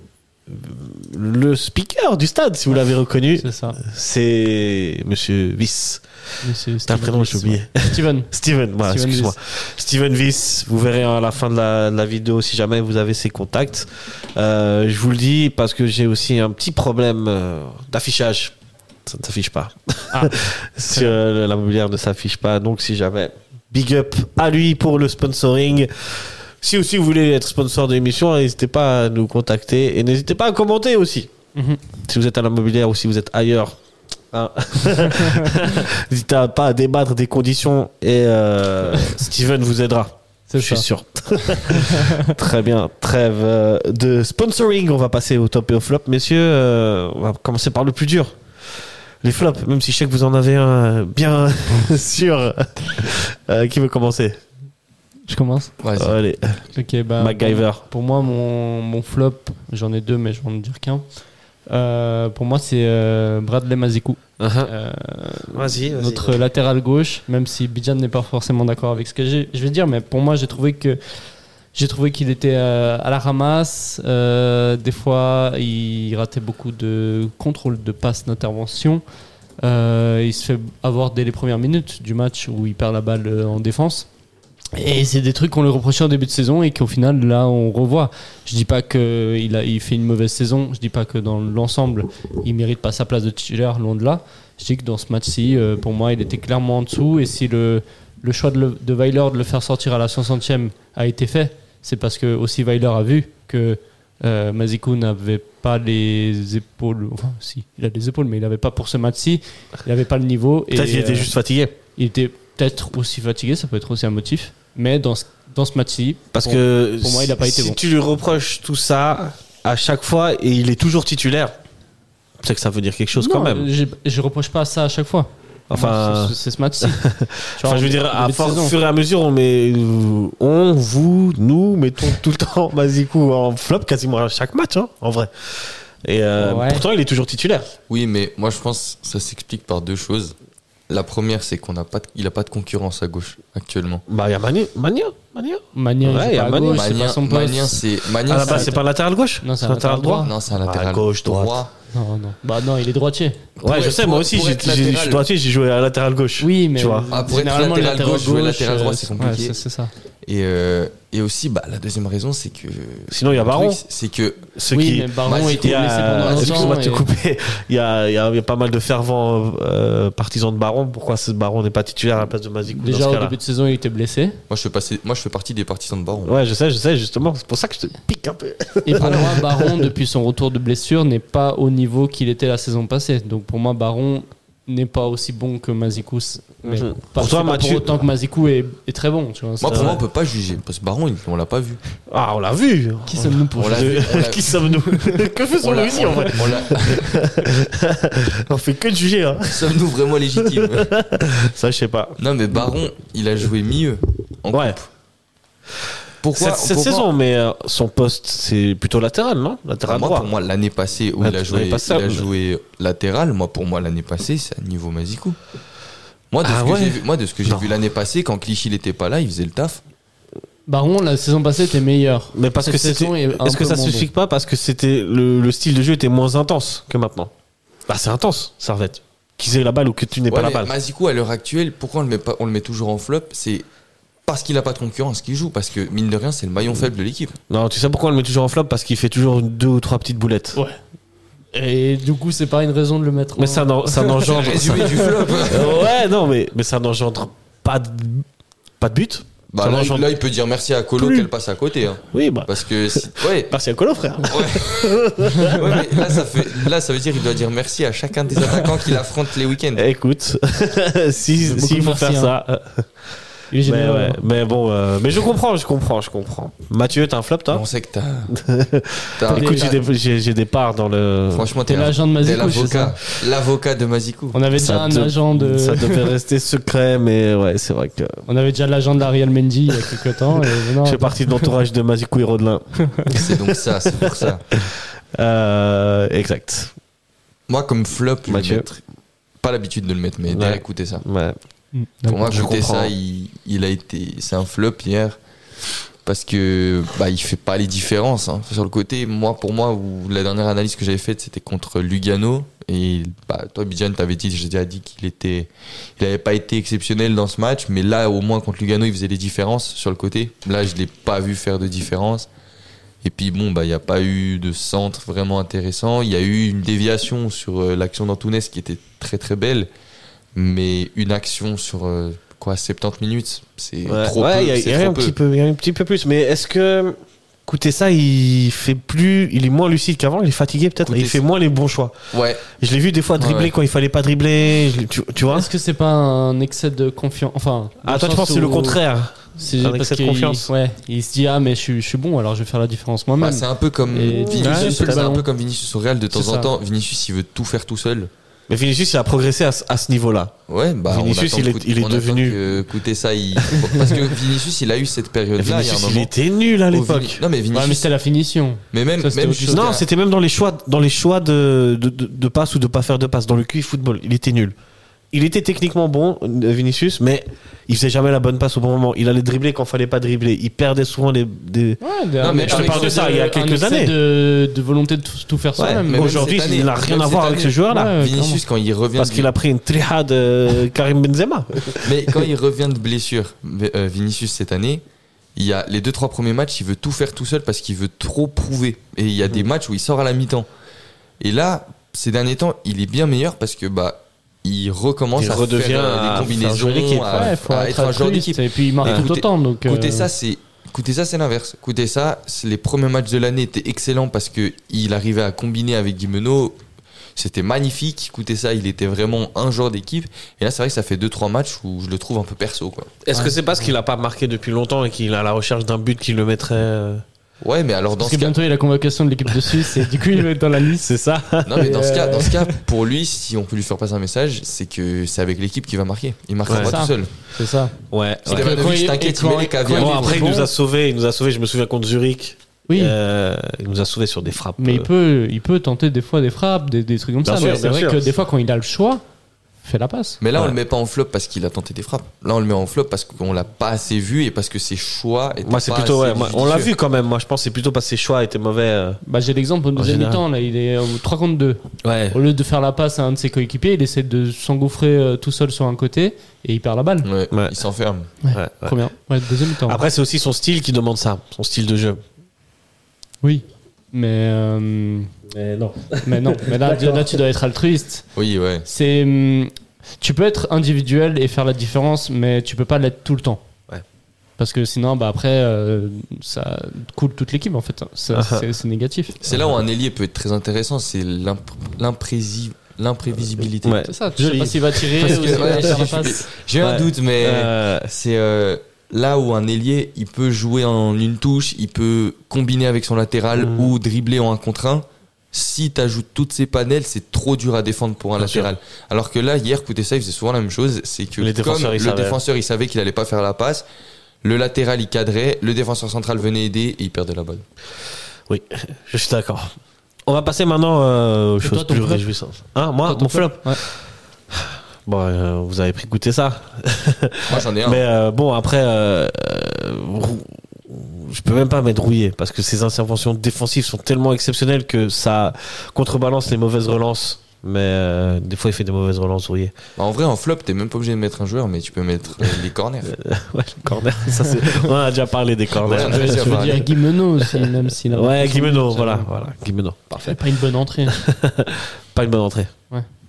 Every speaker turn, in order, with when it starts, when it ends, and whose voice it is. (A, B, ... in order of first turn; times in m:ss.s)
0:00.5-0:06.0 A
0:03.4-0:03.8 B
0:06.4-0:09.3 B
0:06.8-0:18.5 A
0:19.0-0:31.3 A
0:20.1-0:20.4 B
0:31.5-0:31.8 B
0:32.0-0:33.8 A
0:34.3-0:48.4 A
0:35.2-0:35.4 B
0:40.5-0:40.8 B
0:41.4-0:42.3 B
0:49.2-0:54.4 A
0:55.3-0:55.7 B
0:55.8-0:56.2 C
0:56.0-0:56.6 A
0:56.7-1:01.0 B
0:57.2-0:57.8 A
1:01.7-1:19.0 B
1:04.4-1:04.7 A
1:05.5-1:06.4 A
1:19.6-1:24.1 B
1:24.8-1:51.3 B
1:50.7-1:51.7 A
1:52.0-1:57.8 B
1:56.3-2:01.6 A
2:02.4-2:03.7 A
2:03.2-2:07.0 B
2:05.7-2:17.7 A
2:07.5-2:08.7 B
2:16.4-2:16.8 B
2:17.9-2:20.3 C
2:20.9-2:24.0 C
2:24.1-2:26.8 A
2:25.7-2:27.8 B
2:26.7-2:28.7 C
2:28.2-2:31.6 A
2:28.4-2:28.8 B
2:29.4-2:30.3 B
2:30.2-2:31.7 C
2:31.9-2:33.4 B
2:33.6-2:35.2 C
2:33.6-2:37.1 A
2:36.4-2:39.9 B
2:37.1-2:39.6 C
2:40.2-2:44.5 C
2:43.1-2:43.8 A
2:44.5-2:53.3 A
2:44.7-2:47.0 B
2:45.2-2:46.8 C
2:52.7-2:54.4 B
2:54.5-2:56.3 C
2:56.2-2:59.9 A
2:58.8-3:10.0 B
3:06.6-3:07.9 A
3:09.6-3:11.8 C
3:09.7-3:10.0 A
3:12.1-3:19.8 A
3:13.1-3:15.2 B
3:13.6-3:14.6 C
3:15.6-3:17.3 C
3:19.5-3:20.9 C
3:20.3-3:22.2 A
3:22.2-3:24.9 C
3:24.5-3:24.8 A
3:26.2-3:27.1 C
3:26.3-3:30.3 A
3:29.8-3:35.4 C
3:31.2-3:32.3 A
3:36.3-3:39.8 C
3:36.4-3:37.7 A
3:40.7-3:44.1 B
3:42.3-3:47.3 A
3:47.9-3:50.7 A
3:50.3-3:53.6 C
3:54.3-3:57.4 C
3:57.5-4:00.6 A
4:01.5-4:05.0 B
4:03.4-4:08.2 A
4:04.1-4:05.9 C
4:08.8-4:10.1 A
4:09.5-4:13.6 C
4:11.0-4:11.3 A
4:12.1-4:16.7 A
4:14.2-4:19.8 C
4:18.4-4:18.9 A
4:19.7-4:23.1 A
4:21.4-4:22.3 B
4:23.5-4:24.2 B
4:23.6-4:27.6 A
4:27.5-4:28.3 C
4:28.3-4:31.6 A
4:29.2-4:29.8 C
4:29.3-4:29.7 B
4:31.3-4:34.4 C
4:31.6-4:32.9 B
4:34.3-4:36.1 B
4:34.5-4:38.2 A
4:38.3-4:41.5 B
4:40.8-4:46.7 A
4:43.1-4:44.5 C
4:47.5-4:48.7 C
4:48.3-4:48.8 A
4:49.4-4:51.0 C
4:50.3-4:51.4 A
4:51.7-4:52.4 B
4:52.1-4:55.2 C
4:52.3-4:52.9 A
4:56.0-5:12.3 C
5:13.0-5:19.7 C
5:20.3-5:25.2 C
5:23.9-5:31.9 A
5:30.8-5:31.2 C
5:32.1-5:32.5 C
5:32.6-5:35.5 A
5:33.2-5:33.5 C
5:35.3-5:38.8 B
5:37.8-5:40.5 A
5:39.4-5:45.2 B
5:43.2-5:48.1 C
5:44.1-5:45.1 A
5:46.1-5:46.5 B
5:48.5-5:50.3 A
5:50.5-5:56.1 C
5:50.9-5:52.4 A
5:55.4-5:57.2 A
5:56.7-5:57.9 C
5:57.5-5:59.7 B
5:58.7-5:59.8 C
5:59.5-6:04.5 A
6:05.1-6:13.9 A
6:11.8-6:16.3 B
6:12.2-6:13.1 C
6:15.6-6:18.0 A
6:15.8-6:19.3 C
6:17.7-6:18.4 B
6:19.0-6:22.2 A
6:21.8-6:24.8 C
6:25.4-6:30.5 C
6:31.2-6:46.6 C
6:35.2-6:37.3 A
6:37.1-6:40.1 B
6:47.2-6:52.9 C
6:53.0-6:57.0 A
6:57.4-6:58.3 C
6:58.0-7:00.9 B
6:59.5-6:59.8 A
7:00.8-7:01.7 A
7:01.4-7:07.1 C
7:01.5-7:02.6 B
7:06.5-7:06.7 A
7:06.6-7:07.7 B
7:07.9-7:08.6 A
7:08.2-7:10.3 C
7:08.2-7:10.5 B
7:09.7-7:14.9 A
7:12.7-7:12.9 B
7:14.6-7:19.0 B
7:17.2-7:18.0 A
7:19.6-7:20.2 B
7:20.2-7:26.7 C
7:25.4-7:29.0 A
7:29.0-7:37.1 B
7:29.8-7:30.2 A
7:31.8-7:32.2 A
7:37.0-7:38.1 C
7:37.3-7:37.6 A
7:38.2-7:39.8 B
7:38.3-7:38.8 A
7:39.6-7:42.0 A
7:43.2-7:45.1 B
7:45.3-7:47.2 A
7:46.0-7:48.0 B
7:48.2-7:48.6 C
7:48.6-7:53.4 B
7:54.4-7:59.2 B
7:58.1-7:58.5 A
7:59.2-8:03.8 C
7:59.2-7:59.6 A
8:03.6-8:07.9 A
8:03.8-8:06.2 B
8:04.9-8:23.6 C
8:13.4-8:13.8 A
8:18.2-8:18.5 A
8:21.2-8:22.2 A
8:24.2-8:27.4 C
8:28.3-8:29.5 A
8:30.0-8:33.8 A
8:31.4-8:32.0 B
8:32.8-8:33.6 B
8:34.3-8:49.5 A
8:37.3-8:37.8 C
8:49.8-8:52.9 C
8:52.2-8:56.7 A
8:54.2-8:54.6 B
8:55.6-8:56.7 C
8:55.8-8:59.1 B
8:57.2-9:00.2 A
9:00.0-9:01.0 B
9:00.9-9:02.5 A